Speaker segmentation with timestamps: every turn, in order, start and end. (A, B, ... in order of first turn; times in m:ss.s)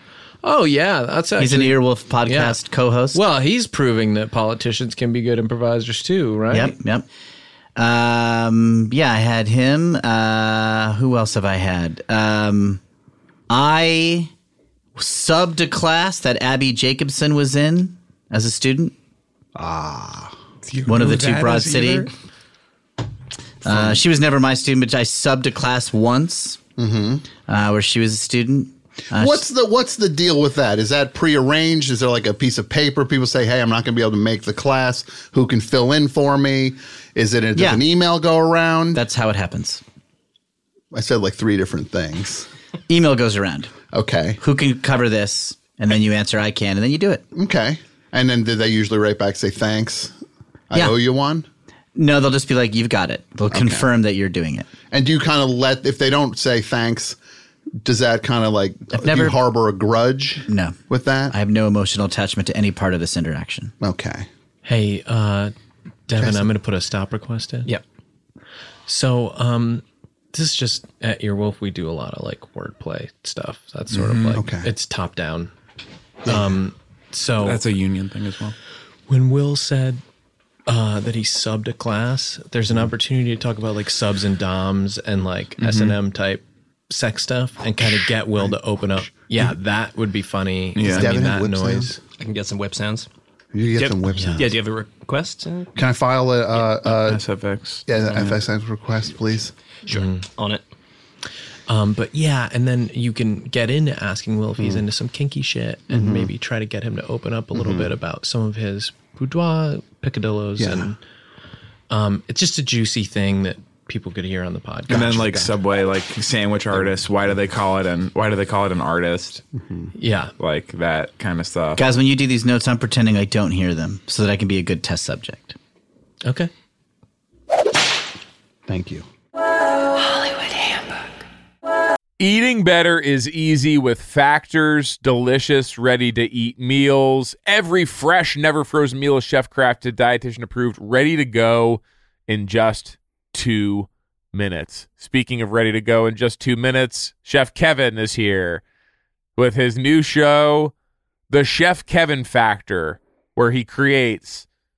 0:00.4-0:02.6 A
0:01.4-0:03.2 B
0:03.1-0:06.8 A
0:06.5-0:07.0 B
0:07.8-0:12.8 B
0:13.5-0:14.3 B
0:15.0-0:18.9 B
0:19.6-0:20.3 C
0:20.6-0:22.1 D
0:20.8-0:22.1 B
0:23.6-0:26.6 B
0:23.7-0:24.0 C
0:26.8-0:27.2 C
0:27.5-0:29.4 B
0:29.1-0:39.0 C
0:37.5-0:37.8 B
0:38.9-0:39.8 B
0:40.9-0:42.5 C
0:42.9-0:43.7 B
0:43.9-0:44.4 C
0:44.4-0:47.2 B
0:47.3-0:50.1 C
0:50.7-0:51.4 C
0:52.0-0:54.7 B
0:53.5-0:53.9 C
0:54.9-0:57.2 C
0:57.8-1:01.3 C
0:58.9-0:59.4 B
1:00.5-1:00.8 B
1:01.3-1:03.7 B
1:03.8-1:04.3 C
1:04.6-1:05.5 A
1:06.1-1:07.7 A
1:06.2-1:06.5 C
1:08.9-1:15.5 A
1:13.9-1:14.4 D
1:14.3-1:14.7 C
1:16.2-1:17.6 A
1:17.4-1:18.6 D
1:19.1-1:20.0 A
1:20.7-1:32.0 A
1:25.6-1:26.0 D
1:27.8-1:29.5 C
1:30.8-1:31.1 D
1:30.8-1:32.0 C
1:32.2-1:33.1 E
1:33.5-1:34.6 C
1:33.8-1:35.7 E
1:34.1-1:34.4 A
1:35.7-1:37.2 C
1:36.8-1:38.2 D
1:37.9-1:39.5 C
1:38.1-1:38.3 E
1:39.8-1:40.6 E
1:39.9-1:40.2 A
1:41.7-1:51.0 A
1:45.9-1:46.3 C
1:47.5-1:47.9 C
1:50.6-1:50.9 C
1:51.9-1:55.3 A
1:54.9-1:55.5 C
1:54.9-1:59.4 D
1:59.6-1:59.9 C
1:59.9-2:00.3 A
2:00.4-2:01.8 D
2:01.8-2:05.6 B
2:06.2-2:06.5 A
2:08.7-2:09.1 C
2:12.2-2:28.6 F
2:29.4-2:30.7 F
2:31.3-2:34.4 F